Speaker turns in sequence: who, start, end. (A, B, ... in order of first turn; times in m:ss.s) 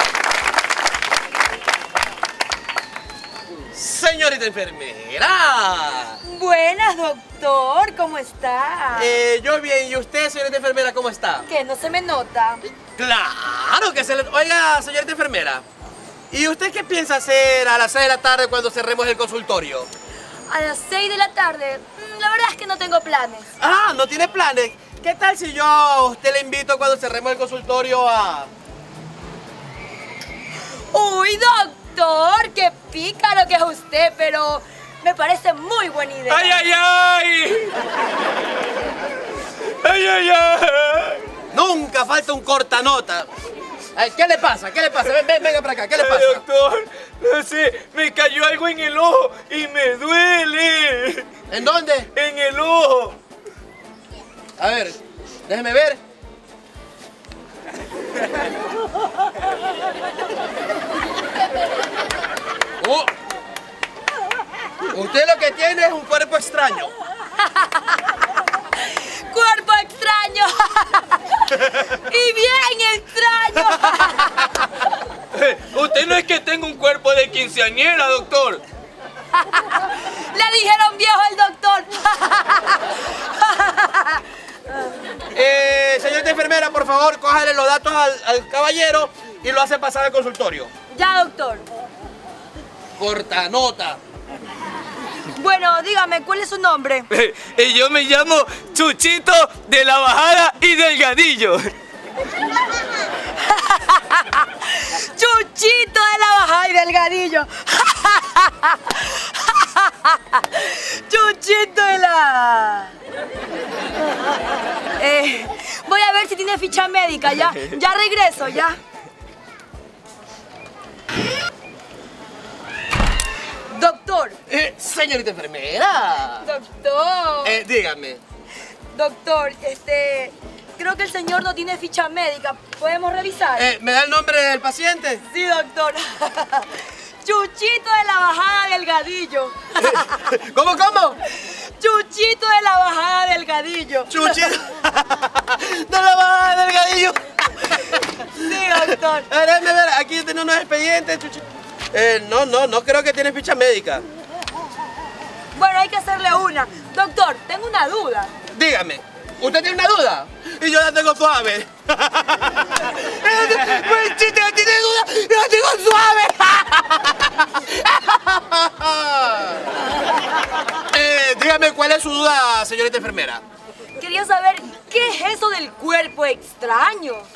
0:03.7-0:06.2 A
0:06.2-0:09.1 B
0:09.0-0:11.4 A
0:11.5-0:12.6 B
0:13.0-0:15.6 A
0:16.3-0:19.9 A
0:20.5-0:23.5 B
0:23.6-0:28.5 A
0:30.9-0:36.6 B
0:36.3-0:37.8 C
0:39.8-0:41.2 C
0:41.5-0:43.3 A
0:43.9-0:46.4 A
0:45.9-0:51.3 C
0:51.5-0:52.1 A
0:52.1-0:53.2 C
0:54.6-0:56.0 A
1:02.8-1:03.1 A
1:04.8-1:06.9 A
1:07.4-1:08.0 B
1:08.8-1:14.5 B
1:15.3-1:18.6 C
1:19.7-1:24.2 B
1:25.3-1:30.7 A
1:30.9-1:31.6 B
1:33.0-1:34.0 A
1:35.3-1:37.1 B
1:37.1-1:41.7 C
1:43.4-1:53.0 B
1:55.0-1:58.8 B
2:03.7-2:04.4 B
2:04.5-2:06.5 A
2:06.4-2:07.6 B
2:07.4-2:08.2 A
2:08.9-2:13.7 B
2:13.6-2:15.2 A
2:15.2-2:20.2 B
2:19.8-2:21.2 A
2:21.4-2:24.5 B
2:24.1-2:34.0 A
2:28.3-2:29.3 B
2:35.5-2:38.3 B
2:38.5-2:49.7 A
2:50.7-2:53.4 A
2:54.0-2:57.3 B